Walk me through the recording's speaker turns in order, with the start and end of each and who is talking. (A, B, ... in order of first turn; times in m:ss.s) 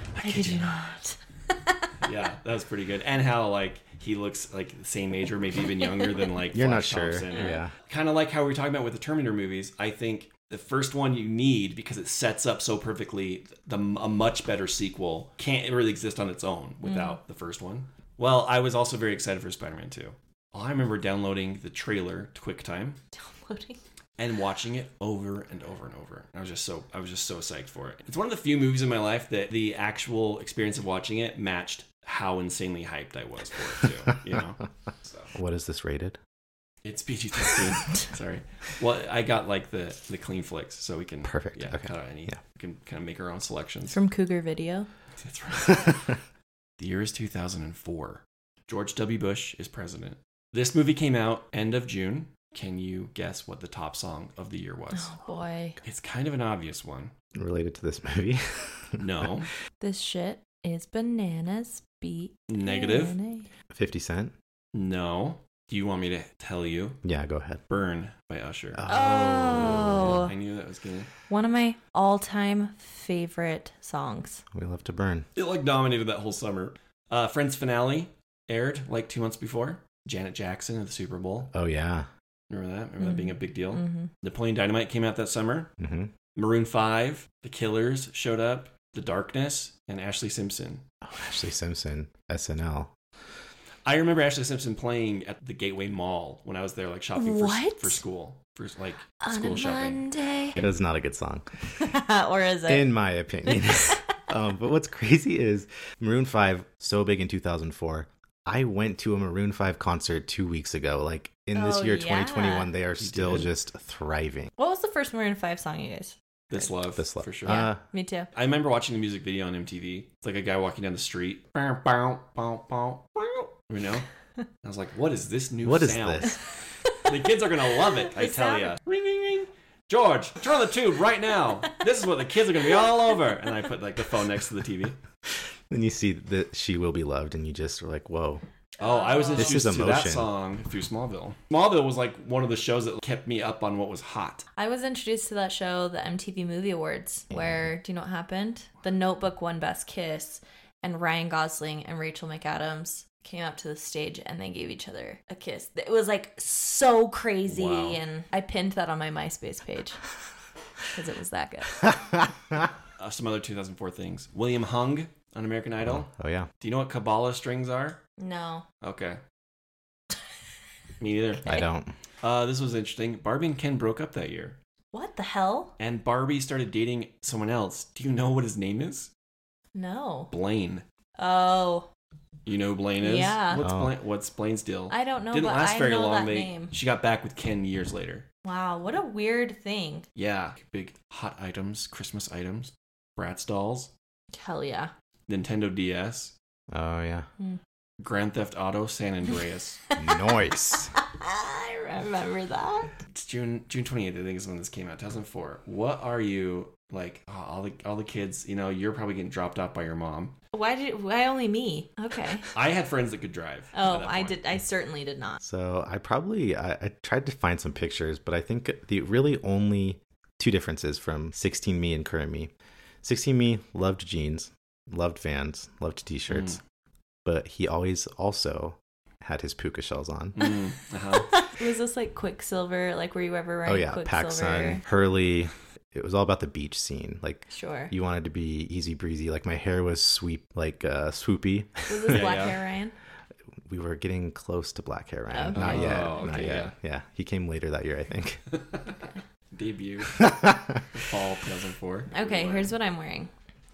0:00.2-0:00.8 A
0:00.2-0:01.8 B
0:02.0-0:23.0 A
0:06.5-0:07.7 C
0:16.8-0:17.2 B
0:23.1-0:23.8 B
0:24.2-0:35.3 A
0:35.3-0:36.2 C
0:36.8-0:44.0 A
0:41.2-0:42.4 C
0:43.9-0:44.9 B
0:45.2-0:46.1 A
0:46.8-0:55.1 A
0:54.9-0:55.8 B
0:55.8-0:57.1 A
0:57.3-0:59.0 C
0:59.0-0:59.5 A
0:59.8-1:03.5 B
1:02.5-1:03.2 A
1:03.7-1:04.3 C
1:04.7-1:07.0 A
1:07.0-1:07.6 C
1:07.7-1:08.8 A
1:08.7-1:10.3 C
1:08.9-1:10.3 B
1:10.0-1:11.1 A
1:11.3-1:14.4 B
1:14.5-1:15.2 C
1:15.3-1:21.5 A
1:21.5-1:22.1 C
1:22.5-1:25.7 A
1:23.0-1:24.1 B
1:25.8-1:26.1 C
1:26.4-1:30.8 A
1:31.0-1:32.9 C
1:33.8-1:40.0 A
1:37.1-1:38.0 B
1:39.2-1:40.6 B
1:40.5-1:41.4 C
1:41.8-1:44.1 B
1:42.7-1:54.5 C
1:51.5-1:52.7 B
1:53.0-1:53.5 A
1:54.6-1:56.1 B
1:56.5-1:57.6 A
1:57.0-1:57.8 C
1:57.4-1:58.3 B
1:58.3-2:04.0 A
2:04.6-2:06.4 A
2:05.6-2:06.4 C
2:07.0-2:15.0 A
2:08.1-2:08.7 B
2:15.7-2:18.4 C
2:18.8-2:19.7 B
2:18.8-2:24.4 A
2:19.4-2:20.3 C
2:24.6-2:40.0 B
2:27.3-2:27.7 C
2:37.5-2:38.0 A
2:40.9-2:42.0 B
2:43.0-2:46.1 A
2:45.8-2:46.5 C
2:46.6-2:48.0 A
2:48.2-2:48.6 B
2:48.8-2:49.2 A
2:51.0-2:51.5 A
2:51.4-2:51.9 C
2:52.2-2:54.6 A
2:54.9-2:55.7 B
2:55.8-2:59.1 A
2:59.7-3:00.3 B
3:00.3-3:00.8 A
3:01.2-3:01.9 B
3:02.4-3:08.2 A
3:03.0-3:03.6 B
3:03.5-3:03.9 C
3:04.9-3:06.7 B
3:08.4-3:10.0 B
3:10.1-3:13.9 A
3:14.3-3:14.9 B
3:15.3-3:16.3 A
3:16.7-3:17.3 C
3:18.0-3:19.8 A
3:19.9-3:20.3 B
3:20.0-3:20.9 C
3:21.0-3:22.9 B
3:23.1-3:30.3 A
3:30.5-3:32.5 B
3:32.5-3:34.4 A
3:33.7-3:35.4 B
3:35.4-3:42.5 C
3:43.0-3:46.6 C
3:46.3-3:46.6 A
3:47.2-3:50.4 C
3:50.3-3:51.4 A
3:51.3-3:54.8 B
3:53.6-4:02.3 C
3:57.5-3:57.9 B
4:01.9-4:02.9 B
4:02.1-4:02.5 A
4:03.6-4:08.4 C
4:05.3-4:06.5 B
4:05.5-4:06.7 A
4:08.5-4:08.9 A
4:09.5-4:10.3 A
4:10.2-4:10.8 C
4:10.9-4:12.7 A
4:12.1-4:13.3 B